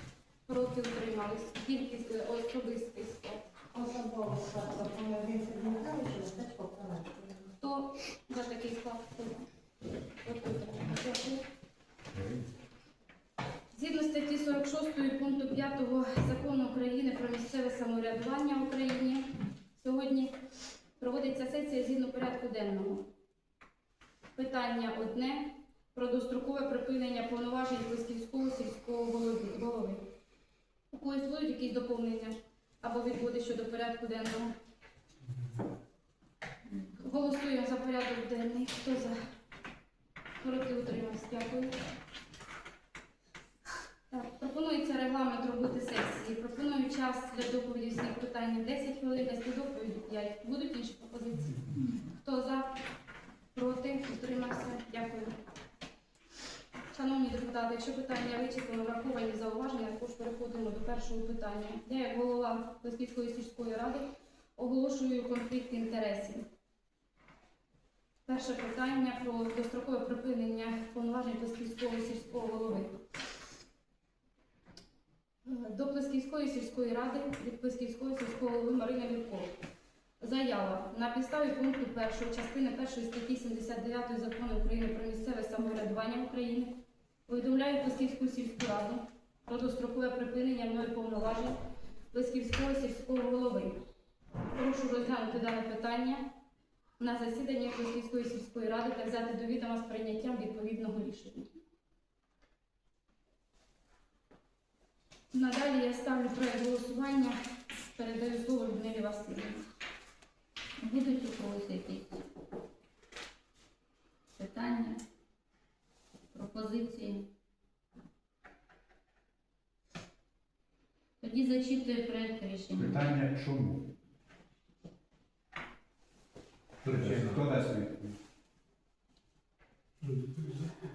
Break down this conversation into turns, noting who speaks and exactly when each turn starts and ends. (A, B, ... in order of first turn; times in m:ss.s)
0:00.4-0:03.5 A
0:03.8-0:07.4 B
0:07.6-0:09.5 A
0:10.2-0:11.4 A
0:13.7-0:20.3 A
0:21.0-0:23.0 A
0:24.3-0:30.0 A
0:30.9-0:34.5 A
0:37.0-0:39.2 A
0:40.4-0:41.8 A
0:44.1-0:52.7 A
0:53.5-0:55.4 A
0:56.9-1:06.4 A
1:08.2-1:13.0 A
1:15.4-1:19.5 A
1:20.2-1:26.7 A
1:27.3-1:31.6 A
1:32.1-1:33.8 A
1:34.5-1:36.3 A
1:37.0-1:41.5 A
1:45.3-1:49.6 A
1:50.8-1:52.2 C
1:54.4-1:55.0 C
1:56.3-1:57.3 C
2:01.2-2:03.1 C
2:02.8-2:03.9 D
2:06.8-2:08.2 D
2:07.0-2:07.4 B
2:10.0-2:10.5 B